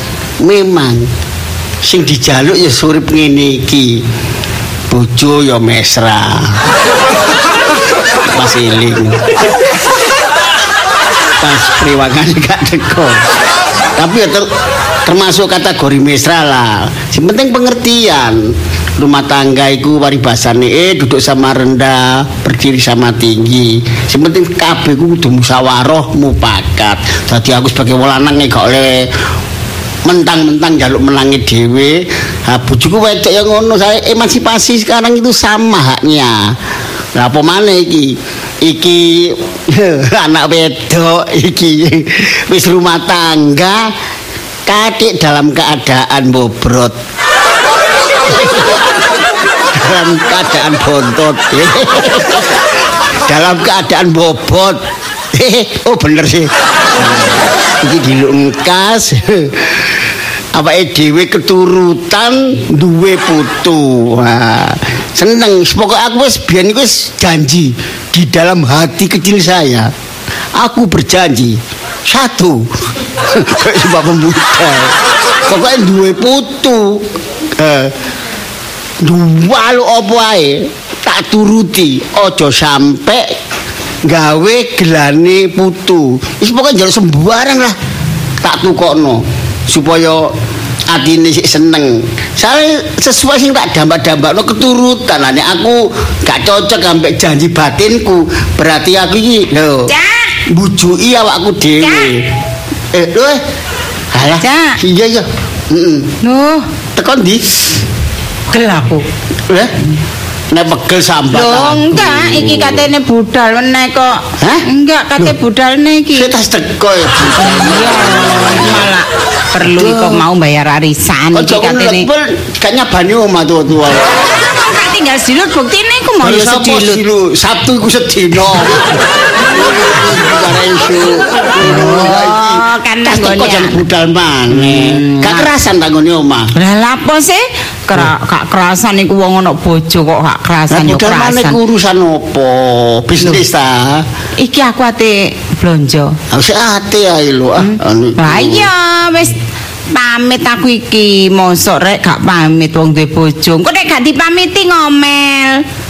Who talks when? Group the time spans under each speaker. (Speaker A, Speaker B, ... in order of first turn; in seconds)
Speaker A: 0.4-1.1, 1.8-4.0, 4.9-6.6, 8.3-9.6, 11.4-13.3, 14.0-14.5, 15.1-29.1, 30.0-36.5, 37.1-43.9, 44.7-47.0, 48.3-48.8, 49.7-52.6, 53.3-54.8, 55.3-56.5, 57.0-59.7, 60.5-69.9, 70.6-72.7, 73.2-77.0, 77.6-77.9, 79.0-83.3, 84.1-87.8, 88.4-90.3, 90.9-99.9, 100.5-102.2, 102.9-103.4, 104.1-106.1, 107.0-107.4, 110.5-112.9, 114.4-114.6, 116.1-118.9, 119.6-120.2, 121.3-124.2, 126.2-128.8, 129.5-136.5, 140.7-144.0, 146.3-148.7
Speaker B: 99.9-100.3, 101.8-102.1, 104.4-104.8, 106.2-106.6, 108.5-109.0, 111.3-116.3, 117.4-122.1, 124.4-127.0, 131.6-133.8, 134.6-135.5, 136.6-141.6, 144.4-146.2, 147.6-149.3, 149.9-155.6